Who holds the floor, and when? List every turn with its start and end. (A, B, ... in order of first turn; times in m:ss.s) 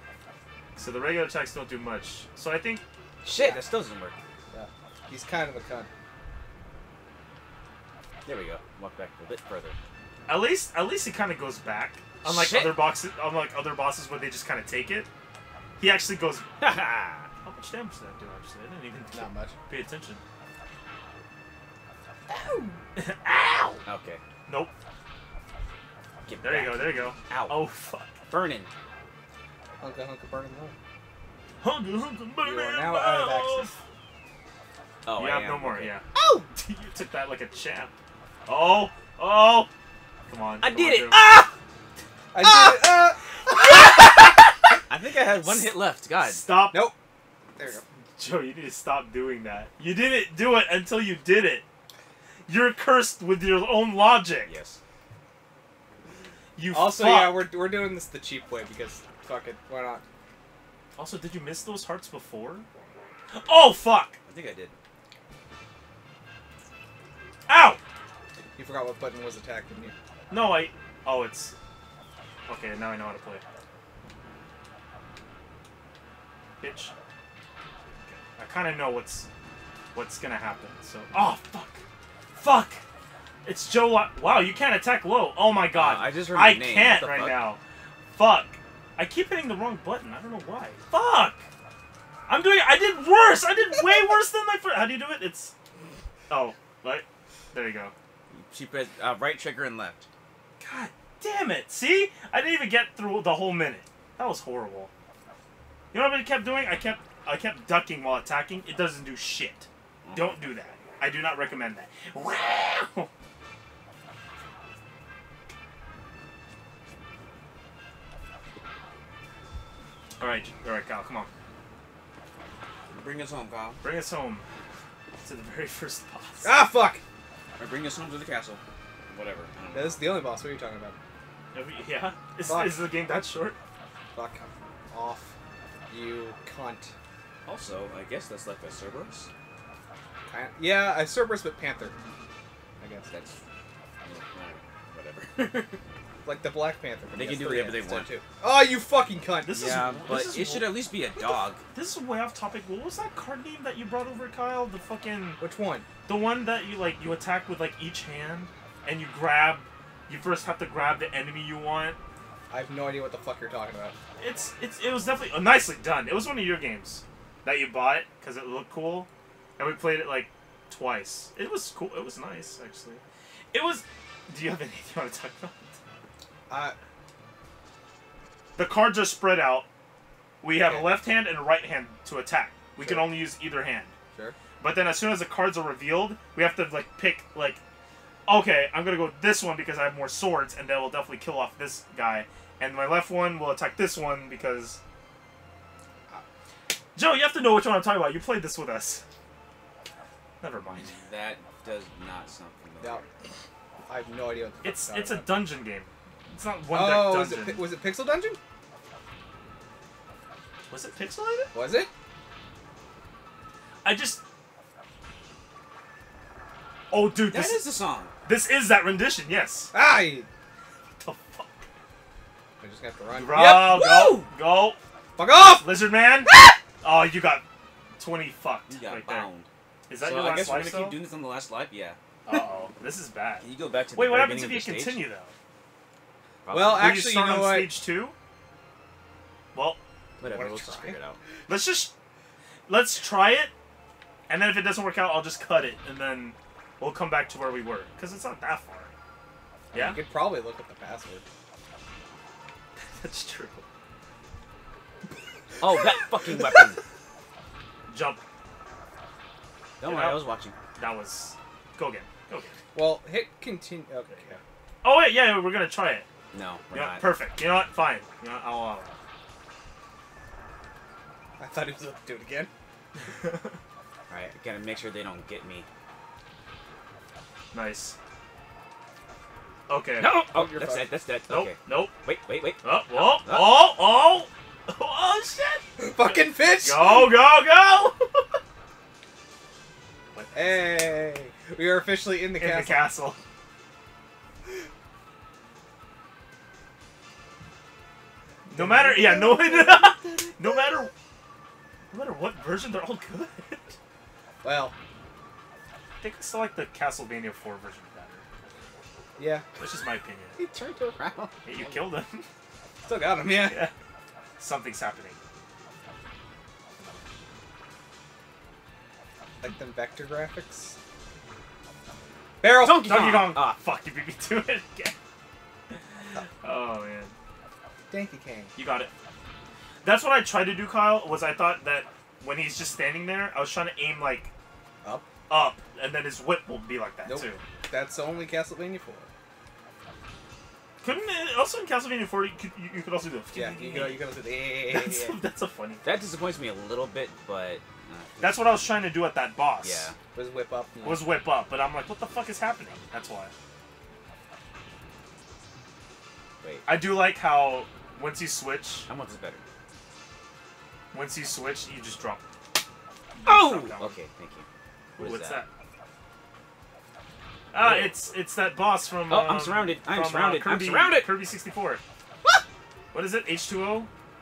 0:00.8-0:02.8 A
0:03.2-0:04.2 B
0:03.4-0:03.6 C
0:04.5-0:05.9 C
0:08.3-0:09.8 B
0:10.3-0:15.1 A
0:12.2-0:12.9 B
0:15.8-0:16.5 A
0:16.6-0:17.3 B
0:17.4-0:20.2 A
0:19.1-0:19.6 C
0:22.3-0:22.8 C
0:23.0-0:23.8 A
0:23.8-0:24.2 B
0:24.5-0:24.7 A
0:26.3-0:27.7 B
0:26.4-0:28.2 A
0:28.3-0:28.7 B
0:29.8-0:30.8 C
0:31.6-0:33.8 A
0:32.4-0:33.7 C
0:35.0-0:36.5 B
0:35.2-0:37.9 A
0:38.5-0:39.7 A
0:40.3-0:41.2 A
0:40.6-0:41.5 B
0:42.3-0:43.8 C
0:42.4-0:42.8 B
0:43.7-0:44.1 B
0:44.9-0:46.4 B
0:46.2-0:46.8 A
0:47.6-0:47.8 C
0:48.2-0:51.6 A
0:52.5-0:54.5 A
0:54.4-0:54.8 B
0:56.6-0:57.5 A
0:56.7-1:00.0 C
1:01.0-1:02.7 A
1:03.3-1:04.2 A
1:04.2-1:04.8 B
1:07.5-1:07.8 A
1:08.6-1:10.0 C
1:10.3-1:11.5 A
1:12.5-1:13.4 A
1:16.6-1:16.9 A
1:18.1-1:19.3 A
1:19.9-1:21.8 A
1:22.4-1:22.8 A
1:23.4-1:27.6 A
1:25.7-1:27.5 B
1:28.1-1:31.5 A
1:32.3-1:35.5 A
1:36.3-1:37.9 A
1:38.3-1:40.1 B
1:40.6-1:44.9 A
1:45.9-1:53.1 A
1:50.0-1:50.4 B
2:00.2-2:01.3 A
2:02.9-2:03.8 B
2:03.8-2:04.5 A
2:05.2-2:06.6 A
2:06.4-2:07.0 C
2:07.6-2:10.3 B
2:09.7-2:11.0 C
2:11.5-2:13.6 A
2:12.4-2:12.9 C
2:14.1-2:15.3 C
2:15.9-2:16.9 C
2:17.5-2:19.3 B
2:20.3-2:22.0 C
2:22.8-2:23.1 C
2:23.1-2:23.4 B
2:24.0-2:25.8 B
2:26.2-2:30.3 C
2:27.1-2:28.1 B
2:29.4-2:30.8 A
2:29.5-2:31.6 B
2:31.7-2:35.4 A
2:35.4-2:35.9 C
2:36.0-2:42.0 A
2:42.5-2:44.0 C
2:44.2-2:53.0 A
2:53.5-2:55.8 A
2:56.5-2:56.8 C
2:58.6-2:59.7 A
3:00.4-3:04.0 A
3:02.8-3:03.2 C
3:04.6-3:07.6 A
3:08.3-3:14.8 A
3:17.0-3:19.0 A
3:20.4-3:21.0 A
3:20.8-3:23.1 B
3:23.9-3:25.5 C
3:24.6-3:27.7 A
3:26.7-3:28.4 C
3:30.7-3:31.5 A
3:31.5-3:31.9 C
3:33.8-3:34.2 A
3:36.9-3:37.6 A
3:37.3-3:38.1 B
3:38.3-3:39.7 A
3:39.7-3:40.3 C
3:41.0-3:41.6 A
3:42.6-3:43.8 C
3:43.1-3:44.8 A
3:43.4-3:44.3 B
3:45.2-3:45.8 C
3:45.5-3:46.3 A
3:46.3-3:46.6 B
3:46.8-3:47.4 A
3:48.0-3:49.3 A
3:48.7-3:52.0 B
3:49.9-3:51.0 A
3:52.3-3:55.3 A
3:53.4-3:55.0 B
3:56.4-3:57.0 B
3:56.5-3:57.8 C
3:56.7-3:58.2 A
3:59.5-3:59.8 A
4:00.2-4:01.2 B
4:00.2-4:01.0 C
4:01.5-4:01.9 A
4:02.7-4:03.5 A
4:04.3-4:08.9 A
4:09.7-4:11.2 C
4:09.7-4:10.0 A
4:13.0-4:13.6 A
4:15.6-4:16.8 B
4:17.9-4:18.2 A
4:19.8-4:20.6 B
4:19.8-4:20.2 A
4:20.8-4:22.6 A
4:22.7-4:24.4 C
4:24.8-4:26.1 A
4:26.3-4:27.1 B
4:26.7-4:29.0 A
4:31.4-4:32.5 C
4:33.0-4:33.6 A
4:34.1-4:35.7 B
4:37.5-4:38.0 A
4:39.7-4:40.2 A
4:40.0-4:43.6 B
4:40.3-4:40.9 C
4:41.3-4:41.9 A
4:42.6-4:48.3 A
4:45.8-4:47.2 C
4:50.1-4:50.9 A
4:50.4-4:52.9 C
4:52.4-4:53.2 A
4:58.5-5:00.9 A
4:58.6-5:00.9 C
5:01.9-5:03.8 A
5:04.4-5:04.7 C
5:06.0-5:08.2 A
5:09.2-5:09.5 C
5:09.6-5:10.4 A
5:10.4-5:11.6 B
5:11.4-5:12.3 A
5:12.8-5:13.7 C
5:13.4-5:13.7 A
5:14.4-5:15.2 A
5:19.4-5:20.8 C
5:22.4-5:22.8 C
5:22.5-5:23.6 B
5:22.6-5:25.0 A
5:26.1-5:27.2 A
5:27.9-5:28.5 C
5:28.6-5:28.9 A
5:29.8-5:34.3 A
5:34.8-5:35.1 C
5:35.3-5:37.4 A
5:37.0-5:39.1 C
5:40.8-5:45.9 A
5:43.3-5:45.2 C
5:45.8-5:48.7 B
5:48.2-5:49.9 A
5:49.6-5:50.0 B
5:50.1-5:51.2 C
5:50.8-5:53.3 A
5:56.4-5:56.7 B
5:56.7-5:58.9 A
5:58.9-5:59.4 B
6:00.9-6:02.2 A
6:03.2-6:04.0 A
6:03.2-6:04.5 B
6:05.0-6:05.5 A
6:05.0-6:05.4 B
6:07.5-6:11.8 A
6:07.6-6:08.0 B
6:09.1-6:11.2 B
6:12.9-6:13.9 A